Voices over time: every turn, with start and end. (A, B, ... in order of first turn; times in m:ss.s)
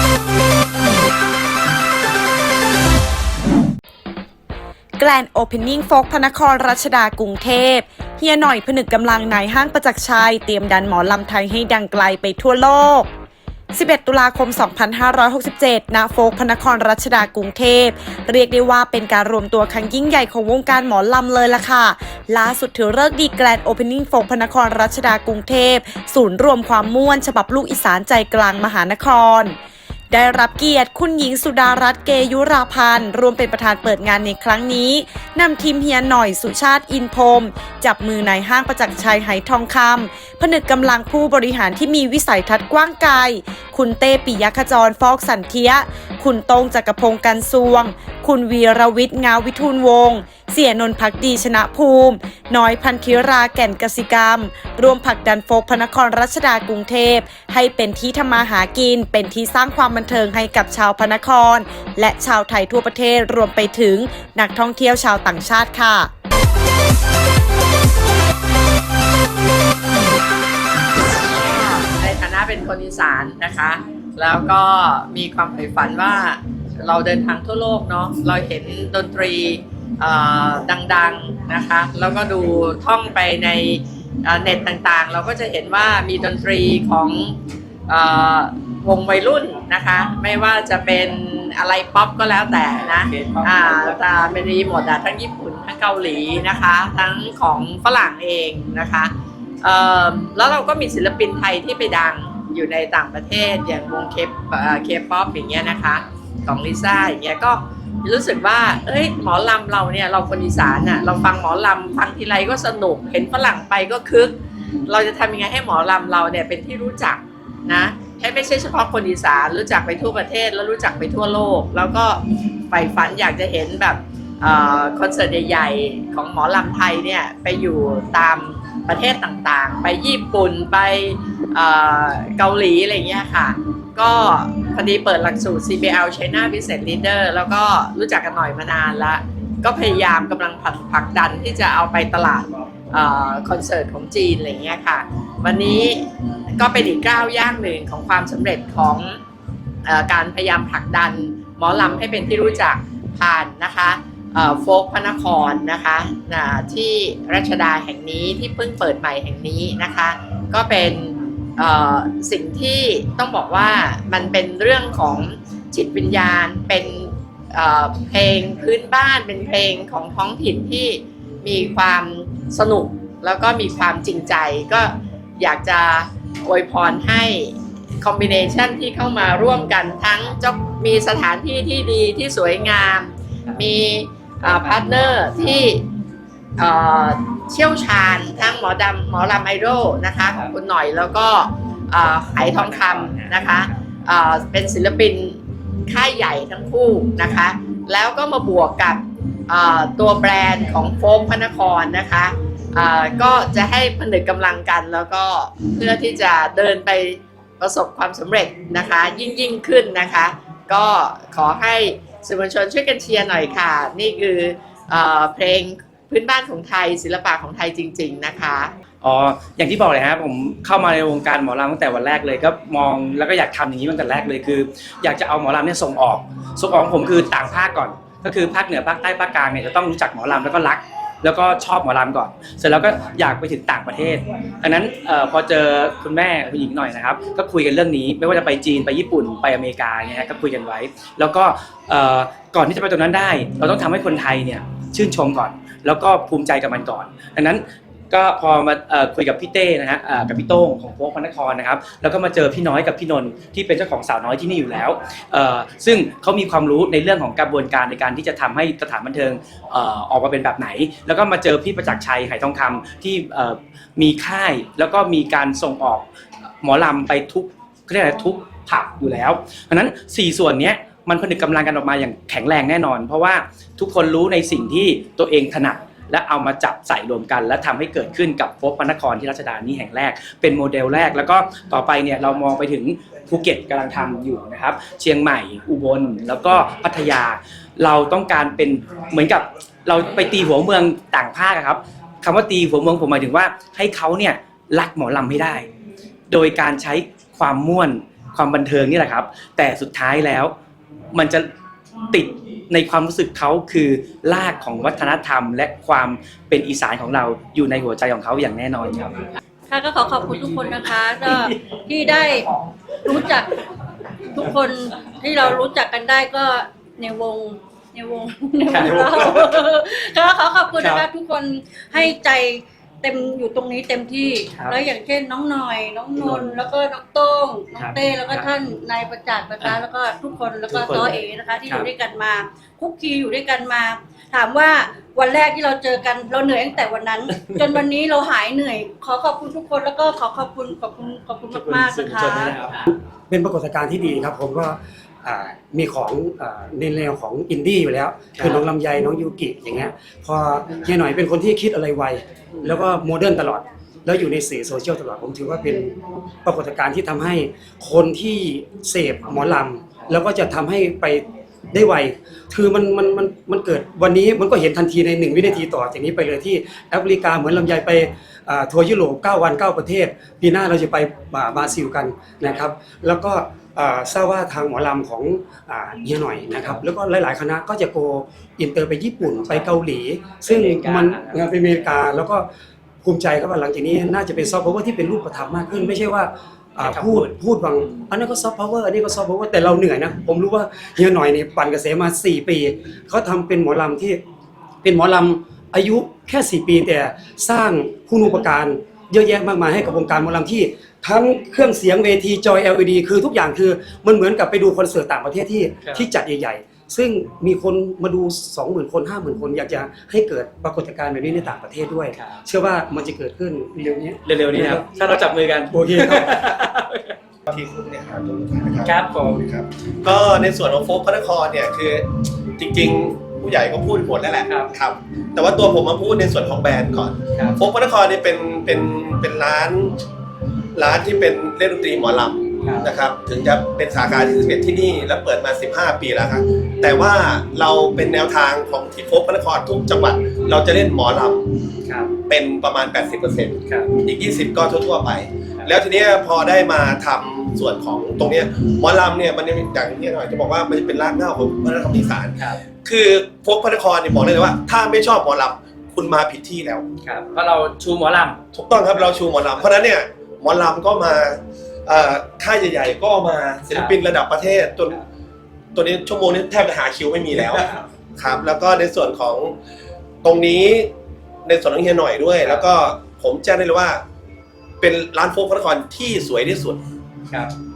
0:05.0-0:13.1 A
0:13.7-0:29.6 A
0:30.1-1:06.1 A
1:11.4-1:12.2 A
1:11.7-1:27.4 B
1:27.9-1:54.3 B
1:54.9-2:26.0 B
2:26.6-2:29.2 B
2:29.8-3:05.8 B
3:04.6-3:05.6 A
3:06.6-3:15.4 B
3:12.2-3:13.4 A
3:12.5-3:13.8 C
3:15.9-3:38.7 B
3:39.0-4:26.1 C
4:26.6-4:55.7 C
4:56.3-5:00.5 C
5:01.1-5:01.5 C
5:02.1-5:09.2 C
5:09.7-5:13.6 D
5:14.3-5:42.6 D
5:18.7-5:19.4 C
5:20.8-5:21.0 C
5:24.5-5:24.8 C
5:26.2-5:26.5 C
5:27.8-5:28.5 C
5:30.7-5:31.9 C
5:37.3-5:37.7 C
5:41.6-5:42.9 C
5:43.3-5:55.9 E
5:48.4-5:48.6 C
5:52.5-5:52.8 C
5:56.4-6:22.5 E
6:05.4-6:05.6 C
6:16.6-6:16.8 C
6:19.4-6:19.8 C
6:20.4-6:21.9 C
6:23.0-6:34.2 E
6:26.8-6:28.1 C
6:34.8-6:54.8 E
6:45.8-6:46.1 C
6:52.1-6:52.4 C
6:54.2-6:57.2 C
6:55.7-6:56.3 E
6:57.5-7:10.0 F
6:58.8-6:59.4 C
7:04.5-7:04.7 C
7:10.8-7:21.4 F
7:22.3-7:36.8 F
7:37.0-7:38.4 C
7:38.5-7:45.0 F
7:43.7-7:44.0 C
7:45.8-7:47.6 F
7:48.2-7:49.6 F
7:50.2-7:50.9 F
7:51.4-7:54.0 F
7:54.8-7:56.8 F